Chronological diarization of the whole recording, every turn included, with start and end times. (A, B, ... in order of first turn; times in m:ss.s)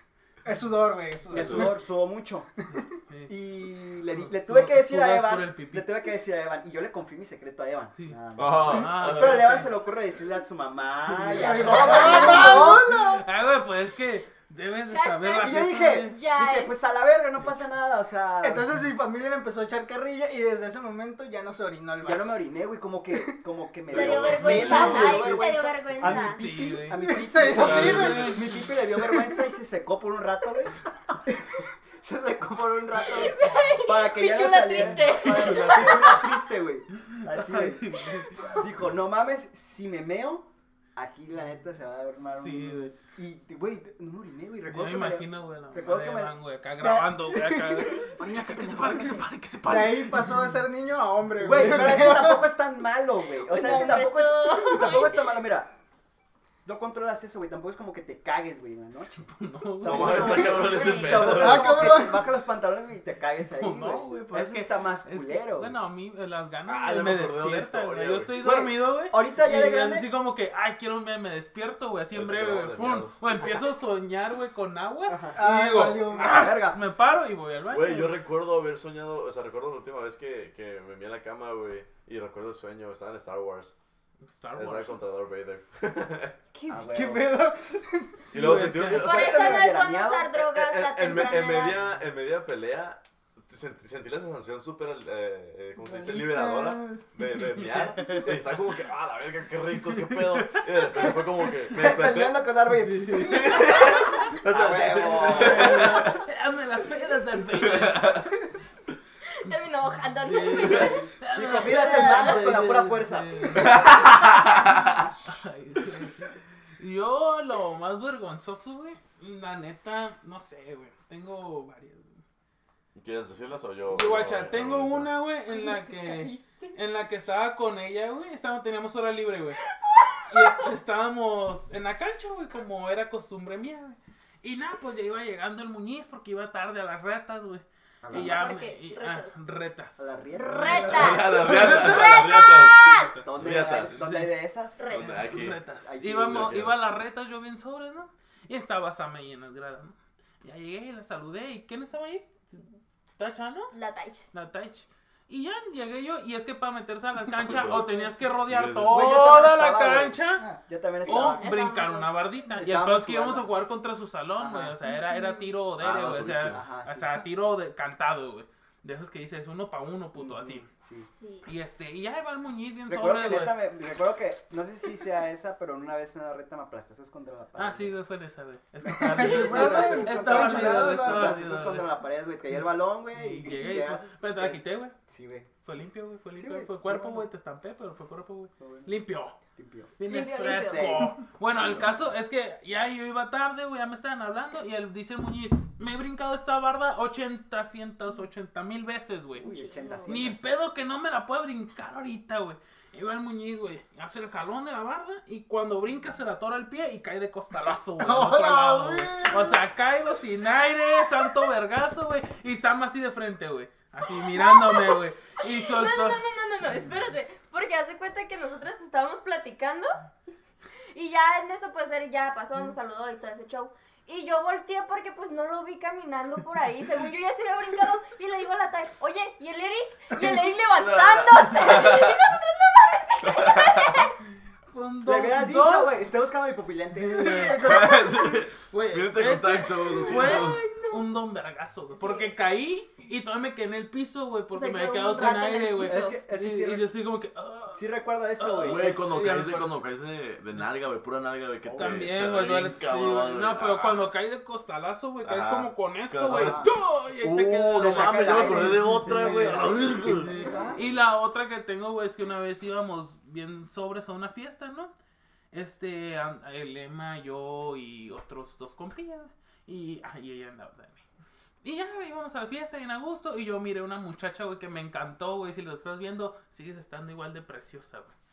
0:00.4-0:01.8 A
0:01.3-0:02.5 B
0:01.3-0:01.7 C
0:03.1-0:03.4 D
0:03.3-0:12.9 B
0:04.0-0:05.9 D
0:08.0-0:09.7 D
0:08.4-0:09.6 C
0:11.1-0:13.3 A
0:11.6-0:16.2 D
0:11.7-0:12.6 E
0:14.9-0:16.7 E
0:15.4-0:18.7 B
0:18.4-0:22.3 A
0:22.0-0:49.3 B
0:23.9-0:25.4 C
0:23.9-0:26.4 E
0:24.4-0:25.0 D
0:26.3-0:28.6 D
0:27.0-0:29.4 A
0:27.5-0:28.3 C
0:33.1-0:36.4 E
0:34.7-0:36.2 D
0:37.1-0:38.6 D
0:42.4-0:43.0 D
0:44.7-0:50.4 D
0:49.6-0:52.5 A
0:51.4-0:55.7 B
0:53.4-0:55.4 E
0:56.6-0:59.3 B
0:59.3-1:00.6 D
0:59.8-1:05.8 B
0:59.8-1:01.9 C
1:00.6-1:01.3 E
1:01.2-1:02.3 A
1:03.5-1:18.2 D
1:06.7-1:08.3 C
1:08.4-1:10.1 B
1:12.1-1:13.4 C
1:15.1-1:15.4 B
1:15.4-1:16.5 A
1:16.0-1:16.8 B
1:17.7-1:23.7 C
1:24.2-1:25.0 D
1:24.6-1:26.4 C
1:26.7-1:27.3 B
1:26.7-1:28.3 A
1:28.3-1:29.7 C
1:28.3-1:29.1 D
1:28.7-1:30.4 B
1:28.9-1:31.8 E
1:30.3-1:42.4 C
1:35.8-1:37.0 A
1:38.0-1:38.3 D
1:40.1-1:40.6 D
1:41.7-1:43.8 B
1:42.8-1:43.6 D
1:43.1-1:46.2 C
1:43.6-1:44.2 E
1:44.4-1:46.2 B
1:45.4-1:48.3 D
1:47.6-1:48.3 C
1:49.4-1:52.5 E
1:50.2-1:54.1 D
1:51.0-1:54.3 B
1:53.6-1:55.0 C
1:54.6-2:02.2 D
2:02.9-2:05.1 C
2:03.9-2:09.6 D
2:05.5-2:06.8 E
2:09.7-2:10.7 E
2:10.3-2:20.1 D
2:18.0-2:18.6 B
2:18.2-2:19.4 E
2:20.0-2:21.3 B
2:20.4-2:23.2 E
2:20.8-2:24.1 C
2:21.3-2:24.3 D
2:23.0-2:25.2 B
2:24.8-2:25.2 E
2:24.9-2:25.6 C
2:25.0-2:33.7 D
2:25.8-2:26.5 B
2:26.2-2:26.8 C
2:33.7-2:34.3 E
2:34.3-2:40.5 D
2:37.4-2:39.0 C
2:38.9-2:41.5 B
2:41.0-2:50.7 D
2:41.1-2:42.2 E
2:42.6-2:43.5 B
2:44.4-2:44.8 B
2:44.9-2:45.5 E
2:45.8-2:46.6 C
2:46.5-2:47.2 B
2:50.2-2:51.1 B
2:51.1-2:51.5 E
2:51.4-2:53.6 D
2:52.9-2:57.9 B
2:57.6-3:02.0 D
2:58.9-3:01.4 A
2:59.0-3:05.5 B
3:03.1-3:05.0 D
3:05.6-3:09.4 D
3:06.4-3:07.3 B
3:08.6-3:09.0 B
3:09.6-3:12.1 B
3:10.0-3:19.5 D
3:10.1-3:11.1 E
3:19.4-3:20.5 B
3:19.4-3:20.2 E
3:20.1-3:36.2 D
3:28.0-3:29.6 A
3:34.2-3:39.9 E
3:40.9-3:54.2 E
3:50.7-3:52.2 C
3:53.2-3:54.0 C
3:54.7-3:55.9 D
3:55.0-3:57.7 B
3:56.9-3:58.0 D
3:57.2-3:58.1 A
3:57.6-4:00.6 C
3:58.7-4:09.8 D
3:59.7-4:01.0 E
4:02.0-4:02.3 E
4:04.5-4:06.2 E
4:05.8-4:06.9 B
4:07.8-4:09.0 B
4:08.6-4:14.0 C
4:11.6-4:12.1 B
4:11.8-4:24.9 D
4:15.2-4:16.7 C
4:16.3-4:16.7 B
4:17.2-4:20.3 C
4:17.4-4:20.9 B
4:25.5-4:31.0 D
4:31.6-4:38.1 D